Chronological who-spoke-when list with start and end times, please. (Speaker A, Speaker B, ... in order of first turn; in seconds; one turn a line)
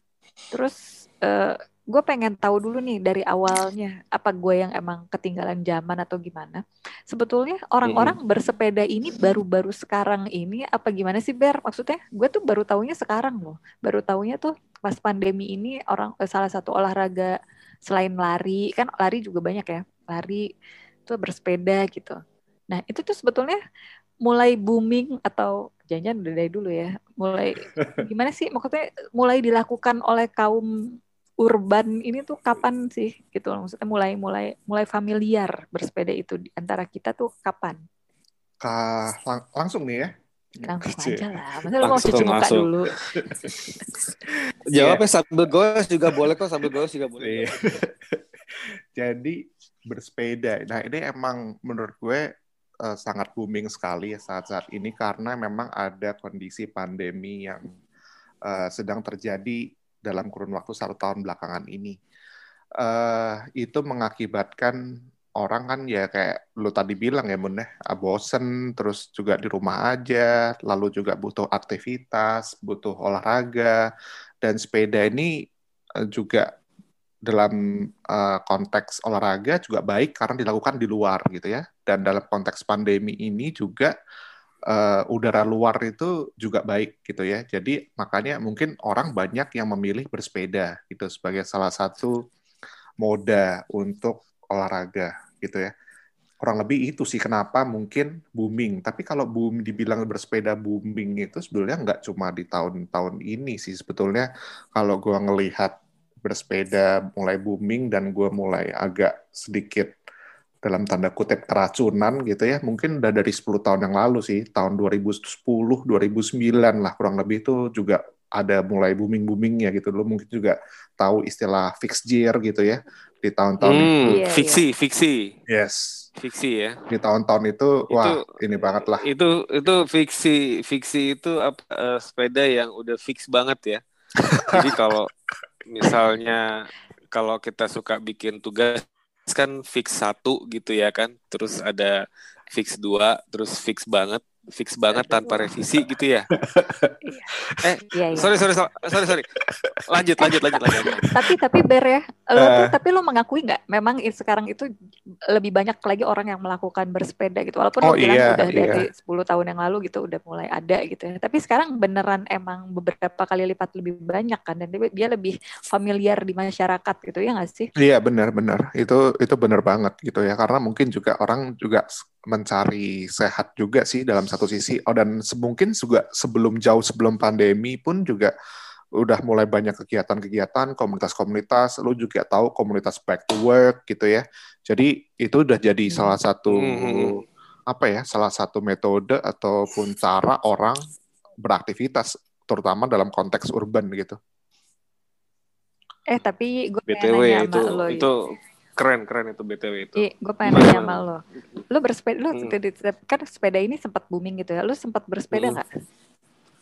Speaker A: 0.5-17.4
Speaker A: 17.9-20.4
Speaker A: 21.1-22.2
Speaker A: 22.7-23.6
Speaker A: 24.2-30.7
Speaker B: 27.8-28.0
Speaker A: 31.4-37.8
Speaker B: 38.6-41.7
Speaker A: 40.6-42.9
Speaker C: 41.8-42.7
Speaker B: 43.2-43.5
Speaker C: 44.7-47.5
Speaker B: 44.8-45.0
Speaker B: 46.1-46.4
Speaker B: 47.2-48.2
Speaker B: 48.9-52.2
Speaker B: 52.8-57.7
Speaker B: 58.5-62.0
Speaker B: 62.8-64.8
Speaker B: 65.4-73.8
Speaker B: 74.4-75.3
Speaker B: 76.1-76.5
Speaker B: 77.3-83.9
Speaker B: 84.7-92.2
Speaker B: 93.0-95.7
Speaker B: 96.4-109.9
Speaker B: 110.6-124.2
Speaker C: 123.6-125.3
Speaker A: 124.1-124.6
Speaker B: 125.5-126.0
Speaker C: 126.2-126.8
Speaker B: 126.9-129.1
Speaker C: 127.9-128.2
Speaker C: 128.8-133.8
Speaker B: 134.3-134.8
Speaker C: 134.5-135.1
Speaker C: 135.7-136.5
Speaker C: 137.1-142.0
Speaker C: 142.5-146.3
Speaker A: 144.9-145.5
Speaker B: 146.4-147.7
Speaker A: 147.0-147.3
Speaker C: 147.6-149.3
Speaker A: 147.9-148.3
Speaker B: 149.1-150.0
Speaker C: 149.9-151.1
Speaker A: 150.2-154.7
Speaker B: 150.8-151.1
Speaker B: 152.3-152.8
Speaker A: 155.3-167.7
Speaker B: 157.8-158.8
Speaker B: 167.8-178.3
Speaker B: 179.0-187.2
Speaker A: 185.9-186.2
Speaker C: 186.5-187.2
Speaker B: 187.7-190.8
Speaker B: 191.4-194.2
Speaker A: 196.1-198.1
Speaker C: 196.9-198.2
Speaker C: 198.8-201.1
Speaker A: 200.0-205.7
Speaker C: 205.3-205.6